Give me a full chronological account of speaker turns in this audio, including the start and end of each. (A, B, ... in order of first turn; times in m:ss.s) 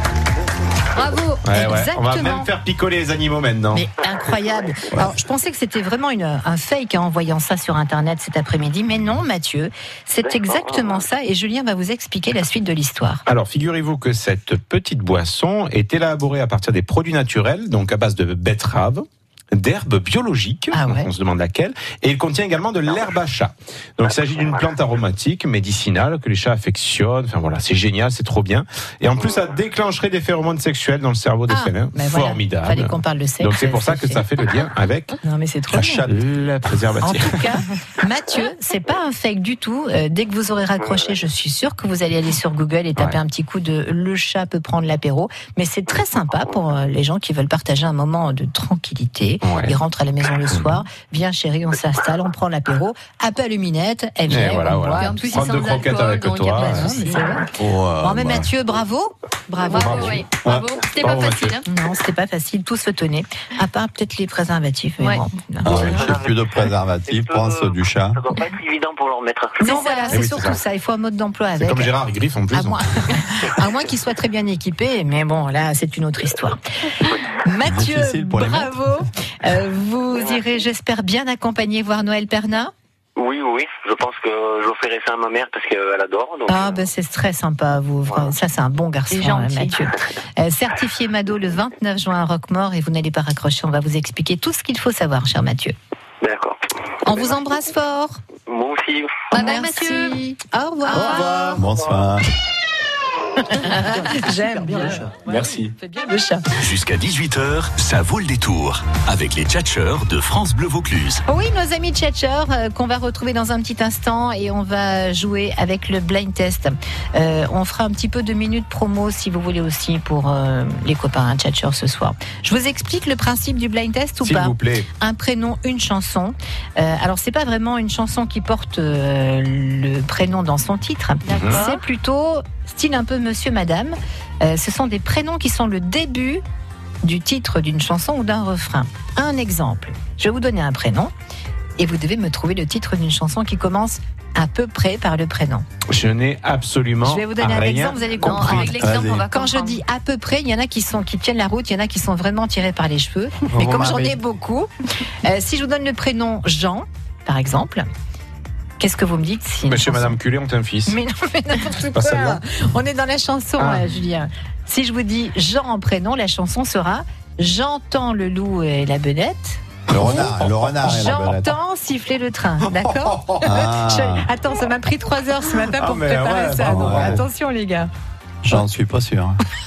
0:01.0-0:02.5 A
0:01.4-0:03.9 B
0:03.7-0:13.2 A
0:10.2-0:11.0 C
0:13.2-0:35.2 B
0:20.7-0:21.1 A
0:24.1-0:24.6 C
0:29.2-0:29.4 C
0:31.5-0:34.2 A
0:35.2-0:36.1 A
0:35.7-0:37.5 B
0:35.8-0:36.0 D
0:37.0-0:55.6 A
0:40.8-0:41.0 C
0:49.4-0:49.8 B
0:50.5-0:50.8 B
0:54.3-0:57.2 B
0:54.9-0:57.4 E
0:56.5-0:57.5 A
0:57.6-0:58.5 D
0:58.0-1:00.2 A
0:59.6-1:01.6 E
1:01.0-1:01.6 B
1:01.6-1:06.1 A
1:05.6-1:08.2 D
1:05.7-1:06.4 C
1:07.1-1:09.9 C
1:09.6-1:11.9 A
1:09.6-1:10.2 E
1:10.1-1:10.6 B
1:11.6-1:12.8 B
1:12.5-1:22.7 A
1:17.6-1:18.8 D
1:23.2-1:26.8 C
1:26.5-1:35.7 A
1:29.1-1:29.8 E
1:36.2-1:36.6 C
1:37.0-1:38.2 A
1:38.4-1:39.3 C
1:39.3-1:40.2 E
1:39.3-1:41.6 A
1:40.8-1:41.6 E
1:41.5-1:42.2 D
1:43.4-1:46.4 A
1:46.6-1:51.2 F
1:51.3-2:16.4 A
2:04.2-2:04.9 B
2:11.2-2:11.8 E
2:11.3-2:11.6 B
2:17.0-2:21.1 A
2:21.8-2:25.6 A
2:25.9-2:28.7 B
2:27.0-2:34.7 A
2:28.0-2:29.8 E
2:28.7-2:29.2 D
2:33.5-2:34.2 D
2:35.2-2:37.9 A
2:38.8-2:40.2 A
2:39.6-2:41.0 B
2:40.9-2:49.6 A
2:41.9-2:42.4 B
2:43.6-2:43.8 B
2:49.9-2:51.6 D
2:50.0-2:50.6 B
2:50.8-2:57.9 A
2:53.4-2:54.3 D
2:55.6-2:57.2 B
2:56.6-2:57.2 D
2:58.4-2:59.4 D